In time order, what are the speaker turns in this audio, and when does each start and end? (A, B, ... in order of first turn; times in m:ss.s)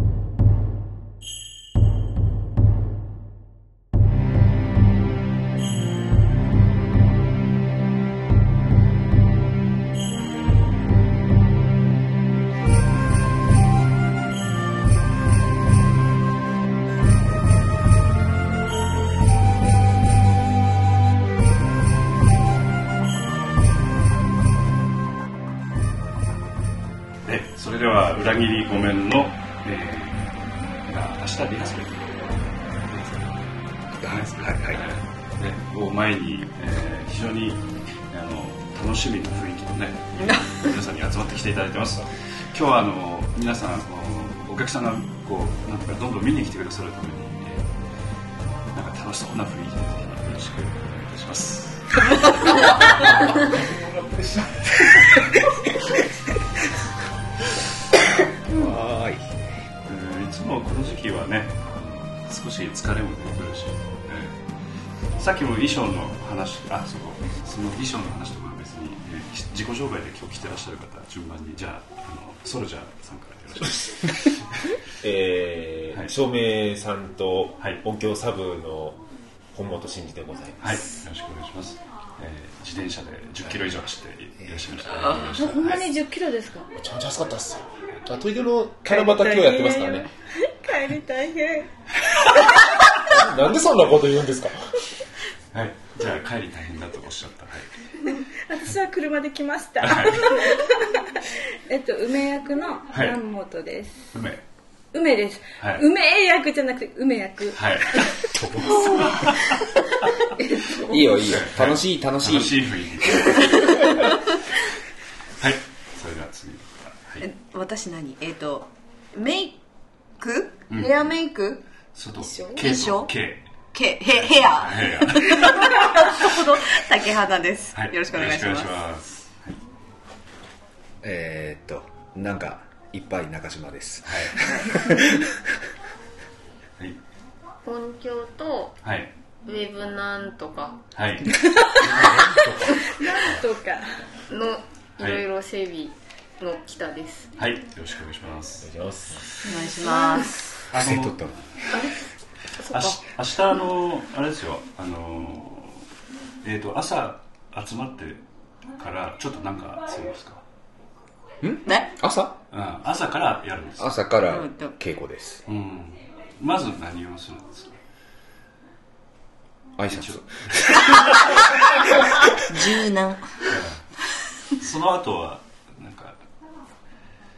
0:27.2-0:33.5 A
0:34.0-0:34.8 B
0:34.0-0:47.7 A
0:40.2-0:40.6 C
0:48.7-0:52.8 A
0:52.8-0:56.0 B
0:57.9-0:59.3 B
0:59.8-1:04.4 A
1:05.1-1:14.8 A
1:15.0-1:19.0 D
1:19.5-1:20.8 D
1:20.6-1:25.9 A
1:25.3-1:26.7 E
1:26.8-1:30.1 D
1:28.8-1:31.7 E
1:32.9-1:34.6 D
1:35.5-1:37.7 A
1:38.1-1:44.1 E
1:39.8-1:40.4 A
1:42.9-1:43.2 A
1:44.1-1:44.4 A
1:44.9-1:49.6 E
1:45.6-1:45.8 A
1:47.5-1:49.7 A
1:50.5-1:51.0 E
1:50.8-1:53.3 B
1:51.2-1:54.0 A
1:55.4-1:57.3 A
1:57.2-1:59.6 C
2:00.2-2:01.6 C
2:00.7-2:01.1 A
2:01.9-2:03.5 A
2:02.2-2:02.6 E
2:02.5-2:03.1 C
2:03.7-2:08.7 C
2:04.2-2:06.2 A
2:07.7-2:09.6 A
2:11.0-2:15.6 B
2:14.0-2:14.4 A
2:17.6-2:18.8 F
2:18.8-2:19.1 A
2:19.4-2:20.8 F
2:20.9-2:21.3 A
2:21.3-2:22.1 E
2:21.8-2:22.9 D
2:22.8-2:23.9 E
2:24.3-2:27.3 F
2:25.0-2:25.2 A
2:27.4-2:28.7 A
2:28.6-2:29.5 D
2:29.4-2:30.6 C
2:29.5-2:30.2 E
2:30.7-2:31.2 A
2:30.7-2:31.5 B
2:31.7-2:33.0 F
2:32.7-2:35.8 A
2:36.4-2:38.2 A
2:38.8-2:40.4 A
2:41.4-2:42.4 B
2:42.5-2:44.0 A
2:43.8-2:45.4 B
2:44.2-2:44.7 C
2:45.4-2:47.7 A
2:49.8-2:51.4 B
2:49.9-2:50.9 A
2:52.3-2:53.4 C
2:53.5-2:53.8 A
2:54.6-2:56.2 A